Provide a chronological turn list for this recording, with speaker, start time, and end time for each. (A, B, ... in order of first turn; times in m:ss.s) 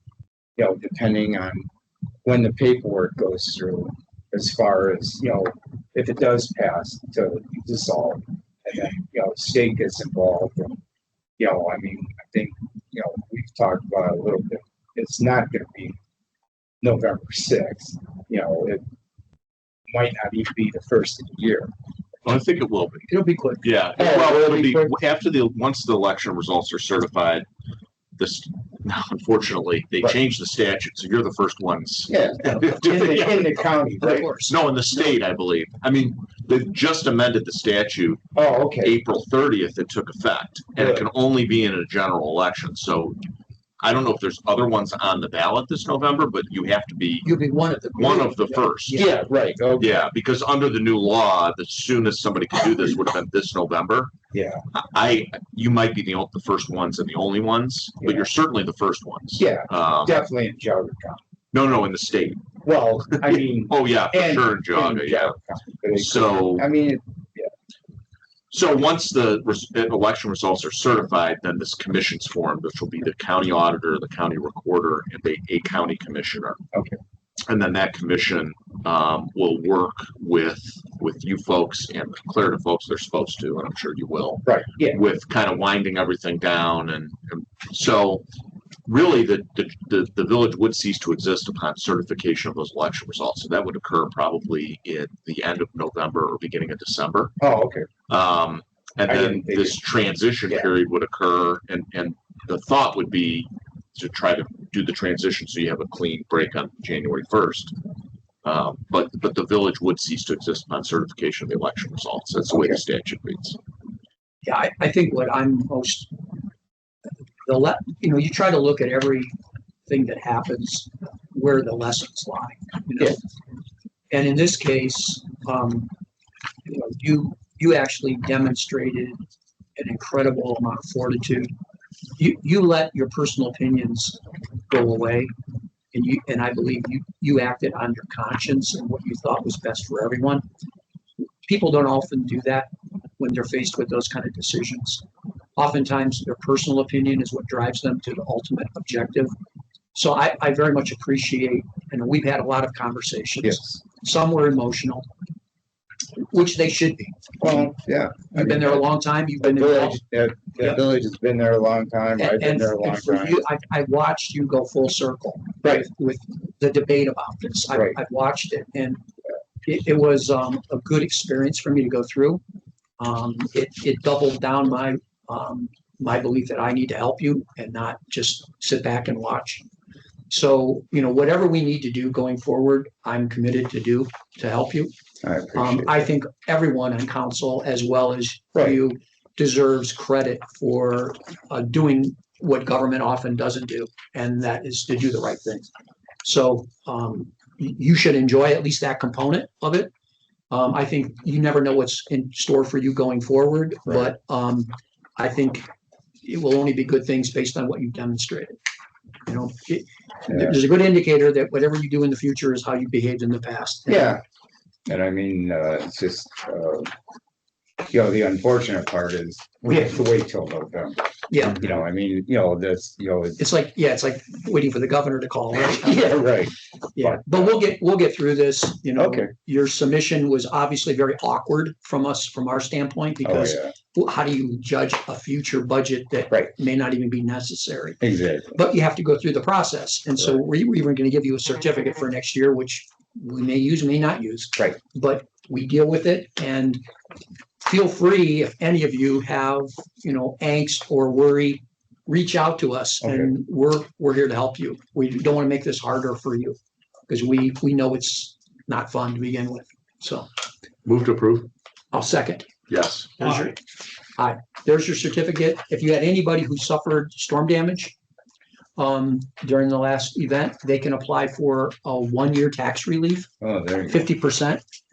0:00.6-0:01.7 A
0:02.2-0:10.8 A
0:11.4-0:16.0 A
0:16.8-0:18.8 A
0:19.9-0:21.7 A
0:22.2-0:27.5 B
0:23.1-0:23.7 C
0:24.0-0:24.9 A
0:28.2-0:33.5 B
0:32.1-0:34.3 A
0:32.7-0:34.6 C
0:34.0-0:38.2 B
0:38.4-0:39.0 A
0:38.8-0:43.2 B
0:40.8-0:41.1 A
0:43.8-0:47.3 B
0:47.2-0:49.2 C
0:48.0-0:49.0 B
0:48.9-0:50.0 A
0:49.8-0:54.1 B
0:54.3-0:54.6 A
0:54.7-1:00.2 B
0:58.0-0:58.3 A
0:59.4-1:01.2 A
1:01.5-1:02.5 B
1:02.6-1:07.5 A
1:03.1-1:05.4 B
1:05.9-1:06.6 B
1:08.5-1:16.6 B
1:16.7-1:17.0 A
1:17.5-1:28.2 B
1:24.4-1:25.0 A
1:28.9-1:37.3 B
1:37.4-1:37.9 A
1:38.1-1:47.7 B
1:39.1-1:39.8 A
1:48.4-1:53.6 B
1:54.4-1:56.1 C
1:57.4-1:59.3 C
1:59.9-2:03.2 C
2:04.1-2:05.9 C
2:06.7-2:09.2 C
2:09.8-2:11.5 C
2:12.2-2:15.3 C
2:15.9-2:20.4 C
2:21.4-2:25.0 C
2:25.6-2:29.3 C
2:29.9-2:35.1 C
2:33.4-2:33.8 A
2:36.2-2:37.7 C
2:37.4-2:38.9 A
2:38.3-2:40.0 C
2:39.4-2:43.4 A
2:42.2-2:49.0 C
2:49.6-2:52.4 C
2:53.0-2:59.6 C
3:00.3-3:04.9 C
3:05.2-3:06.0 A
3:05.6-3:15.7 C
3:16.2-3:19.9 C
3:20.5-3:25.7 C
3:23.9-3:24.1 A
3:26.2-3:28.6 C
3:29.3-3:34.2 C
3:30.3-3:30.6 A
3:33.9-3:34.2 A
3:34.9-3:36.9 A
3:37.9-3:43.4 A
3:41.3-3:41.6 C
3:43.4-3:46.4 C
3:45.6-3:47.6 A
3:47.0-3:58.0 C
3:49.0-3:49.3 A
3:53.2-3:53.8 A
3:58.0-3:58.6 A
3:58.5-4:06.8 C
4:07.6-4:16.6 C
4:13.0-4:13.3 A
4:17.1-4:20.3 C
4:20.9-4:21.5 B
4:21.9-4:22.5 C
4:22.7-4:23.4 B
4:23.2-4:23.6 C
4:24.2-4:28.0 C
4:28.8-4:33.3 C
4:33.4-4:34.1 A
4:33.9-4:34.6 C